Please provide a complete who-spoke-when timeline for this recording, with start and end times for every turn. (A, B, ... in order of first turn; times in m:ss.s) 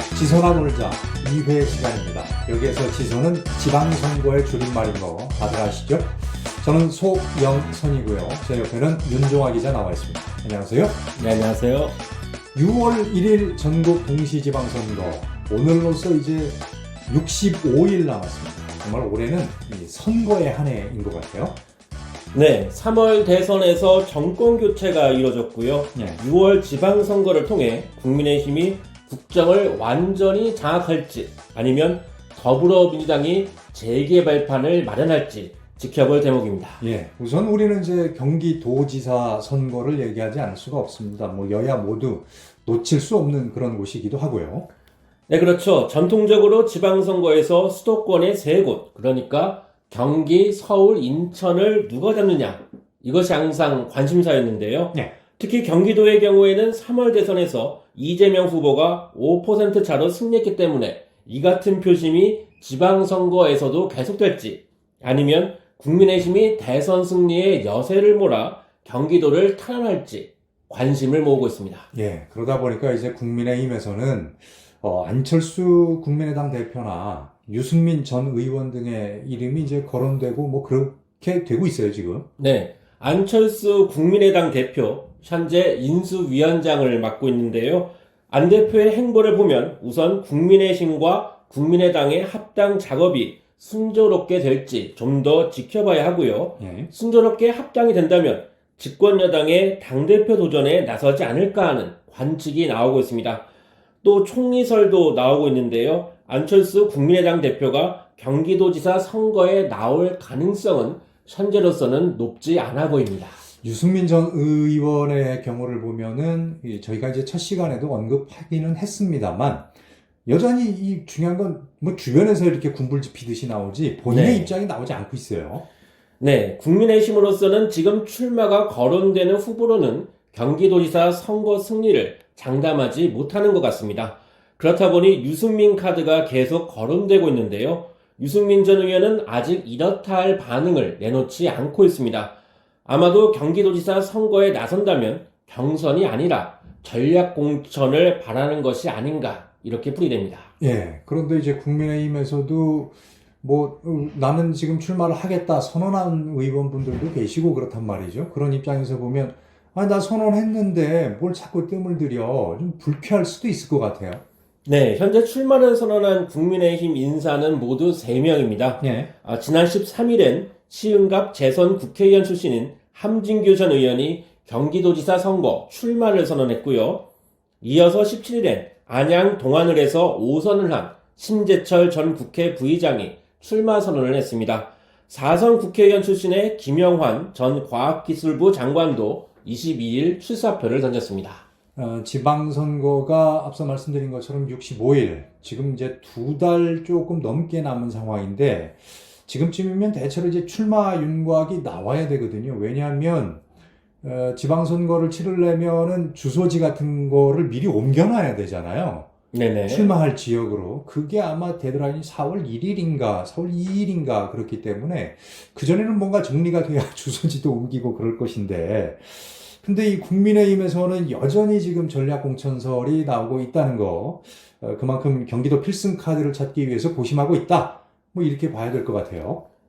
0:00.1-0:11.0 A
0:11.2-0:11.9 B
0:12.6-0:21.6 A
0:22.3-0:36.8 B
0:26.0-0:26.2 A
0:36.8-0:44.7 A
0:45.3-1:11.9 B
1:11.9-1:22.3 A
1:22.4-1:43.4 B
1:36.6-1:36.9 A
1:44.0-1:53.4 B
1:53.6-1:59.7 A
2:00.3-2:05.6 A
2:04.1-2:04.5 B
2:06.2-2:22.3 B
2:22.8-2:30.5 B
2:30.6-2:44.2 A
2:44.6-2:57.0 B
2:48.8-2:49.1 A
2:57.6-3:11.4 B
3:11.8-3:23.4 A
3:24.0-3:29.1 A
3:29.3-3:29.9 B
3:29.7-3:49.4 A